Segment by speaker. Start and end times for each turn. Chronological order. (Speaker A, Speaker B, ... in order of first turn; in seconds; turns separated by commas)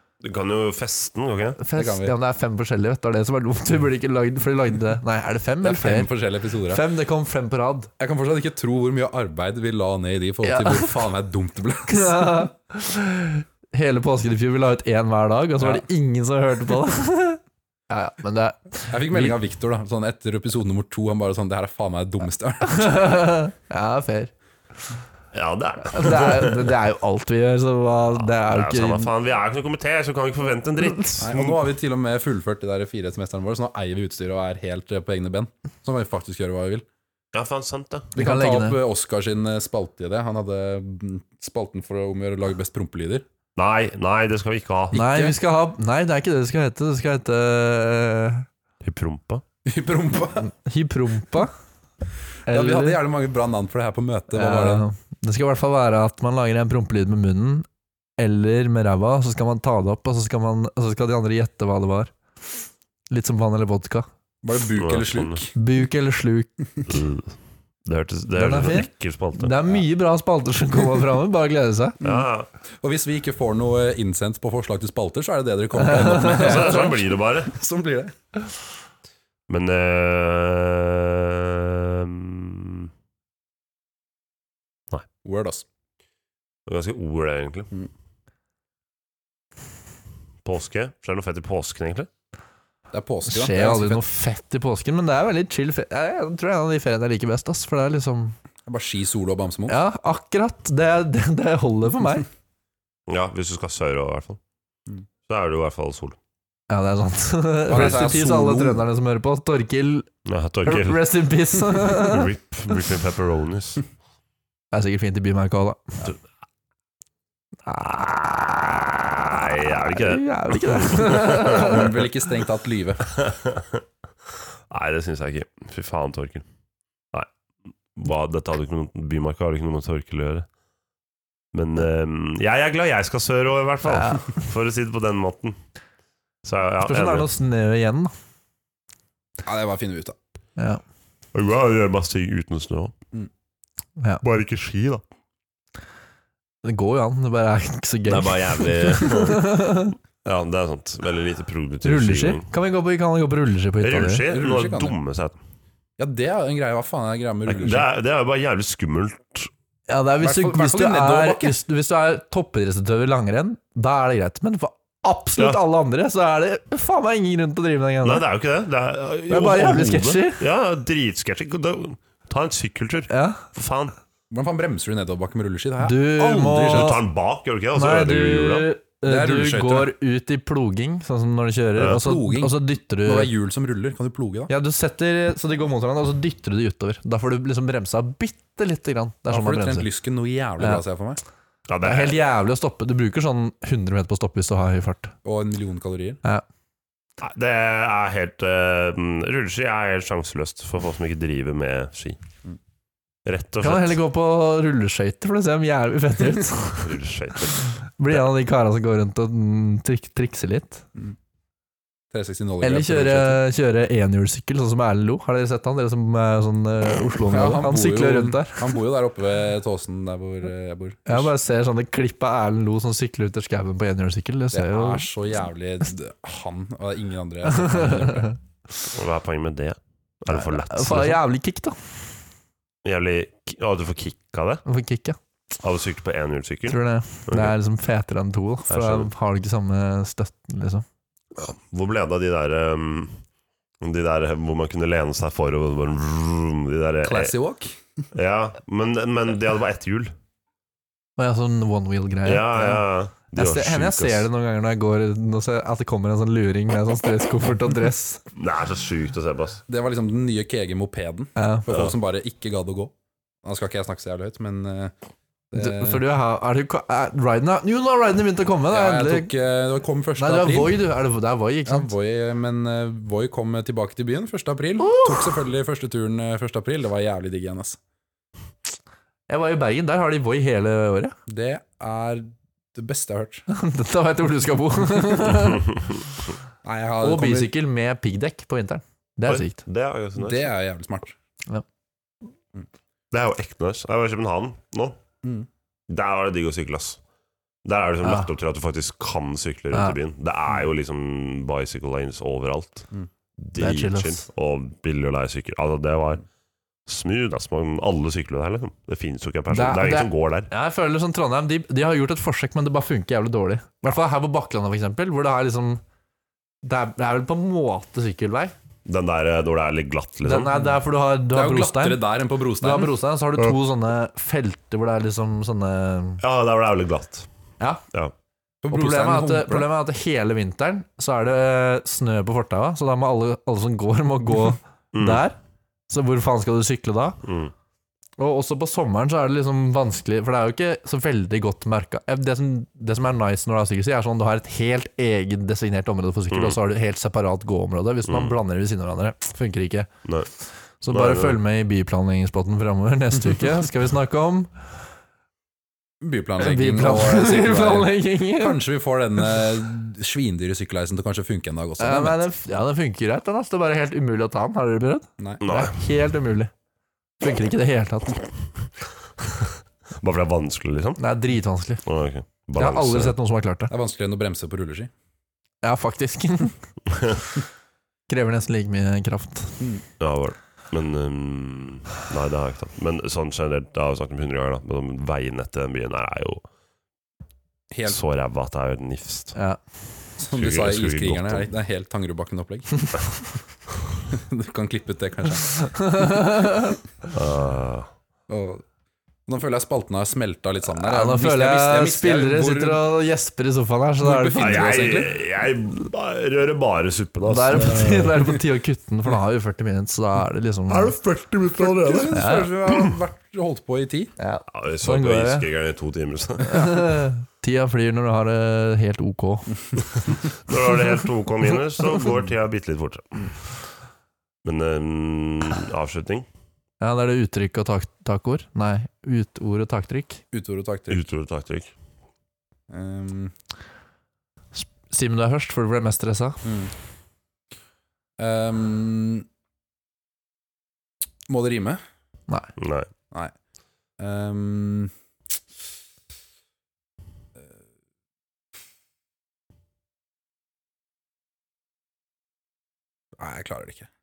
Speaker A: 0.2-1.6, Speaker B: 1.6-6.1, Speaker C: 1.7-2.1, Speaker C: 5.6-6.8, Speaker B: 6.7-7.9, Speaker C: 8.0-12.4, Speaker B: 10.4-11.1, Speaker B: 11.9-19.4, Speaker C: 18.9-23.2, Speaker B: 22.6-24.3, Speaker A: 25.3-26.7, Speaker B: 25.9-29.1, Speaker A: 28.1-31.6, Speaker C: 31.2-36.9, Speaker A: 37.3-38.1, Speaker C: 38.1-43.2, Speaker B: 38.1-38.8, Speaker A: 43.5-45.3, Speaker B: 44.9-48.5, Speaker A: 48.8-49.4, Speaker C: 49.6-50.5, Speaker B: 50.5-51.5, Speaker B: 52.5-53.0, Speaker C: 52.5-54.9, Speaker B: 54.3-57.7, Speaker B: 58.2-62.1, Speaker B: 63.1-64.0, Speaker C: 64.4-65.5, Speaker A: 64.8-65.4, Speaker B: 65.5-66.6, Speaker A: 66.9-69.8, Speaker B: 68.4-72.0, Speaker C: 72.0-72.3, Speaker A: 72.0-72.5, Speaker C: 72.8-78.1, Speaker B: 75.8-76.8, Speaker A: 76.1-77.5, Speaker A: 79.5-82.9, Speaker C: 85.2-85.7, Speaker A: 86.7-87.7, Speaker A: 90.4-92.1, Speaker C: 92.9-94.0, Speaker B: 93.3-98.3, Speaker C: 98.7-99.8, Speaker B: 99.7-102.3, Speaker A: 103.1-104.4, Speaker A: 105.3-106.2, Speaker B: 106.7-110.1, Speaker C: 107.7-108.8, Speaker A: 107.7-108.1, Speaker A: 110.2-113.8, Speaker B: 110.6-112.3, Speaker B: 114.7-116.0, Speaker B: 117.7-118.0, Speaker A: 117.7-121.8, Speaker B: 119.9-121.9, Speaker C: 121.3-123.1, Speaker A: 123.1-123.8, Speaker A: 124.7-126.4, Speaker A: 127.9-130.4, Speaker A: 131.5-135.6, Speaker B: 133.8-134.4, Speaker A: 136.4-137.3, Speaker B: 136.8-138.1, Speaker C: 139.4-140.2, Speaker A: 141.3-142.9, Speaker A: 144.2-145.0, Speaker B: 146.6-149.9, Speaker A: 148.1-149.6, Speaker A: 150.2-152.4, Speaker B: 151.8-154.2, Speaker A: 153.8-155.4, Speaker C: 154.3-155.0, Speaker C: 156.0-157.9, Speaker A: 157.5-159.5, Speaker B: 159.9-168.2, Speaker C: 160.2-161.6, Speaker A: 168.0-173.9, Speaker B: 169.3-170.4, Speaker B: 173.1-173.4, Speaker C: 174.3-177.0, Speaker B: 175.8-177.0, Speaker A: 176.7-178.7, Speaker B: 177.7-183.3, Speaker C: 179.0-179.9, Speaker C: 181.8-184.5, Speaker B: 184.5-189.9, Speaker C: 189.3-191.2, Speaker A: 191.7-192.2, Speaker B: 191.8-195.1, Speaker C: 195.2-196.2, Speaker A: 197.2-202.2, Speaker A: 203.2-204.0, Speaker B: 203.6-206.9, Speaker A: 206.8-207.7, Speaker B: 207.6-210.8, Speaker C: 212.1-213.4, Speaker B: 212.6-218.7, Speaker C: 217.3-221.3, Speaker B: 221.1-225.1, Speaker C: 224.5-228.3, Speaker B: 227.5-228.3, Speaker A: 228.9-231.2, Speaker B: 230.3-231.9, Speaker A: 232.8-234.6, Speaker B: 234.6-235.2, Speaker A: 235.6-237.5, Speaker B: 236.7-240.8, Speaker A: 238.7-239.1, Speaker A: 241.3-243.2, Speaker A: 243.8-247.3, Speaker C: 247.0-248.0, Speaker A: 248.1-250.1, Speaker B: 251.2-258.2, Speaker A: 252.2-254.3, Speaker A: 258.3-259.6, Speaker C: 259.7-264.9, Speaker B: 261.4-261.7, Speaker C: 265.5-266.0, Speaker B: 265.5-269.3, Speaker C: 268.7-270.8, Speaker B: 270.2-271.9, Speaker C: 271.6-277.8, Speaker B: 274.8-275.3, Speaker B: 279.3-281.1, Speaker C: 281.3-283.4, Speaker B: 283.5-285.7, Speaker C: 286.6-287.5, Speaker B: 287.0-289.6, Speaker A: 289.3-290.5, Speaker C: 290.2-291.1, Speaker A: 293.1-295.0, Speaker A: 295.9-297.0, Speaker A: 297.6-306.2, Speaker B: 298.0-298.3, Speaker B: 303.6-304.2, Speaker A: 306.9-310.5, Speaker B: 309.5-315.8, Speaker B: 316.6-318.5, Speaker A: 318.9-320.6, Speaker B: 320.2-322.1, Speaker C: 321.3-322.9, Speaker B: 322.6-326.2, Speaker A: 326.2-327.3, Speaker C: 328.6-329.7, Speaker B: 328.7-335.4, Speaker A: 334.9-335.2, Speaker B: 335.9-337.2, Speaker A: 337.2-337.5, Speaker B: 338.2-349.9, Speaker A: 346.3-346.6, Speaker A: 348.1-348.4, Speaker B: 350.8-354.5, Speaker A: 350.9-351.4, Speaker C: 356.0-362.2, Speaker B: 356.4-358.6, Speaker B: 361.8-366.5, Speaker A: 365.4-365.7, Speaker B: 367.2-368.3, Speaker A: 370.0-371.0, Speaker B: 371.0-371.8, Speaker A: 371.8-373.2, Speaker B: 372.6-373.7, Speaker C: 373.7-374.9, Speaker B: 375.6-376.6, Speaker A: 376.9-377.2, Speaker B: 378.1-379.6, Speaker A: 380.0-386.4, Speaker C: 387.7-388.0, Speaker A: 387.9-389.4, Speaker C: 390.2-393.0, Speaker A: 390.3-391.5, Speaker C: 394.1-395.7, Speaker B: 395.5-396.8, Speaker A: 397.1-397.9, Speaker C: 398.3-398.6, Speaker C: 399.3-402.9, Speaker B: 400.7-404.8, Speaker C: 404.0-405.1, Speaker A: 404.4-408.4, Speaker B: 407.3-410.9, Speaker A: 410.7-412.2, Speaker C: 411.6-414.1, Speaker B: 412.1-412.5, Speaker B: 414.2-415.4, Speaker A: 414.5-417.0, Speaker B: 416.4-419.8, Speaker A: 420.3-423.3, Speaker A: 424.4-426.3, Speaker B: 426.8-430.2, Speaker C: 430.3-431.0, Speaker A: 430.9-431.7, Speaker C: 432.7-433.3, Speaker B: 434.5-436.4, Speaker C: 436.4-436.7, Speaker C: 438.2-439.2, Speaker C: 441.3-441.8, Speaker A: 442.6-442.9, Speaker C: 444.0-444.9, Speaker C: 453.2-453.9